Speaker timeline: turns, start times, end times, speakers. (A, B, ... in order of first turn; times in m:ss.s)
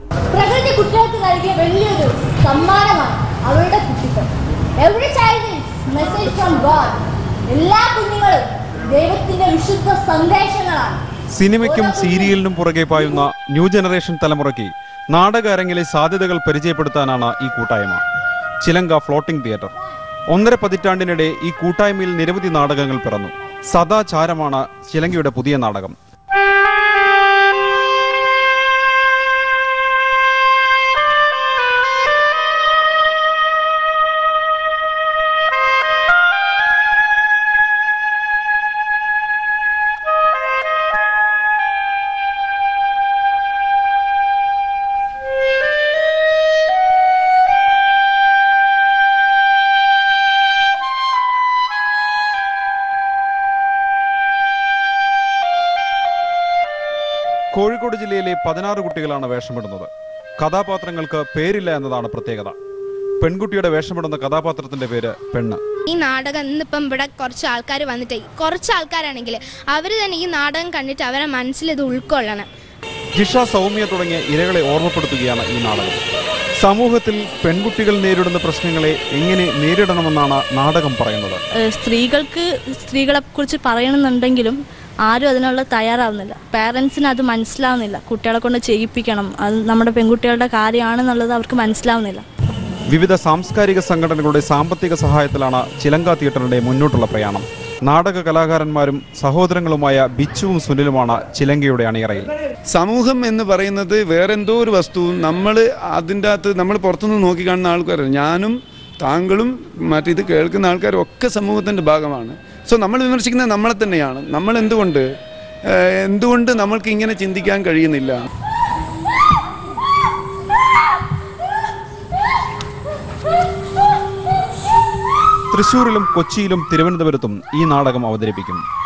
0:00.3-0:11.0 A
0:11.3-0:18.0 B
0:11.6-0:12.3 A
0:18.6-0:19.7 B
0:20.3-0:26.0 B
0:57.5-1:02.6 B
1:03.2-1:05.6 B
1:05.9-1:12.5 C
1:13.1-1:16.0 B
1:16.6-1:21.4 B
1:21.6-1:32.2 D
1:32.9-1:42.3 B
1:42.7-1:55.1 E
1:55.7-1:58.2 E
2:05.5-2:08.6 B